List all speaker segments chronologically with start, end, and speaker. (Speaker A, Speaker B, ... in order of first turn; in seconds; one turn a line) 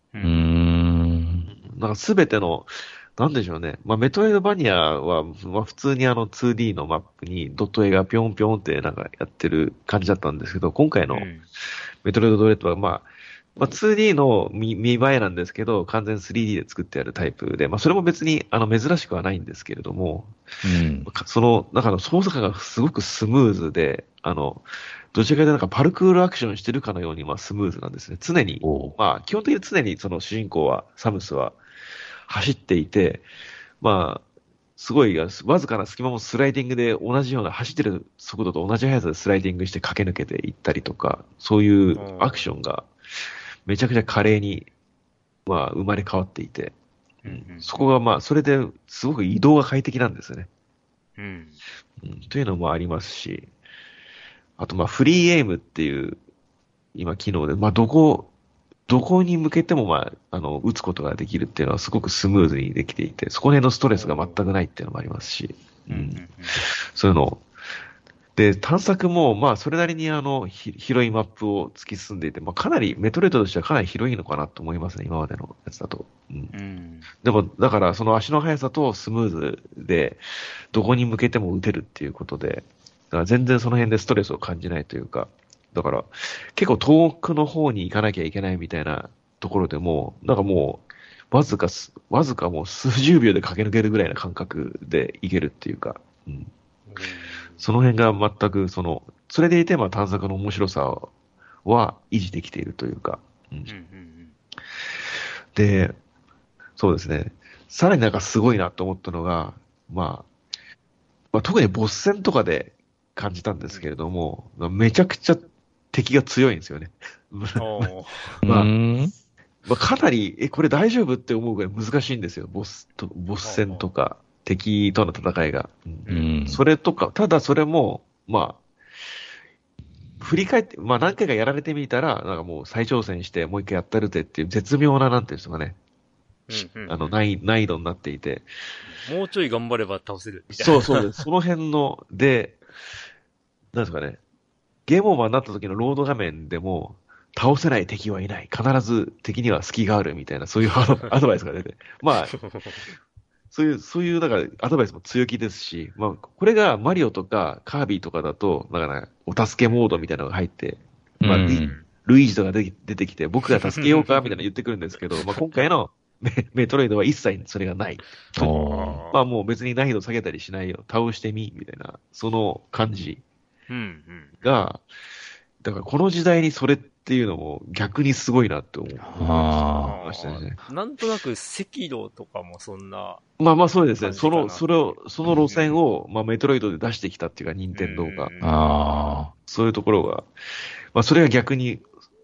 Speaker A: 0.1-0.4
Speaker B: 0.2-1.5
Speaker C: 1.5-11.3
Speaker A: 11.1-11.5
Speaker C: 12.0-20.4
Speaker B: 20.6-21.1
Speaker C: 21.1-31.6
Speaker B: 28.6-29.0
Speaker C: 32.3-33.3
Speaker C: 33.8-34.2
Speaker C: 34.8-42.9
Speaker A: 42.0-42.5
Speaker C: 43.7-44.7
Speaker C: 45.5-46.8
Speaker A: 47.2-47.8
Speaker C: 47.3-50.5
Speaker A: 51.2-51.6
Speaker C: 52.0-53.5
Speaker C: 54.6-56.2
Speaker C: 57.0-58.3
Speaker C: 58.9-67.4
Speaker A: 63.9-64.4
Speaker A: 65.9-66.6
Speaker C: 68.4-76.5
Speaker A: 76.5-77.1
Speaker C: 77.2-96.5
Speaker A: 96.9-97.7
Speaker C: 97.6-101.1
Speaker C: 101.7-103.7
Speaker A: 103.7-104.3
Speaker C: 105.5-106.0
Speaker C: 106.8-110.3
Speaker C: 111.3-117.9
Speaker A: 117.6-118.4
Speaker C: 118.4-118.7
Speaker B: 118.4-119.1
Speaker C: 119.7-128.6
Speaker A: 123.4-123.8
Speaker A: 126.1-126.3
Speaker B: 126.1-126.6
Speaker C: 130.2-135.8
Speaker A: 136.5-137.2
Speaker C: 136.5-138.5
Speaker A: 138.9-141.2
Speaker C: 140.5-142.6
Speaker C: 143.7-144.2
Speaker C: 144.9-152.4
Speaker A: 152.3-152.9
Speaker C: 153.5-168.5
Speaker B: 161.2-161.8
Speaker A: 163.7-164.3
Speaker B: 168.4-169.0
Speaker A: 168.4-169.2
Speaker C: 169.1-173.2
Speaker A: 173.7-174.6
Speaker C: 174.4-174.8
Speaker C: 175.6-180.6
Speaker B: 179.1-180.0
Speaker A: 179.8-183.2
Speaker C: 183.4-188.3
Speaker A: 184.0-185.7
Speaker A: 187.7-188.6
Speaker B: 188.4-189.3
Speaker C: 189.5-190.3
Speaker C: 190.9-191.8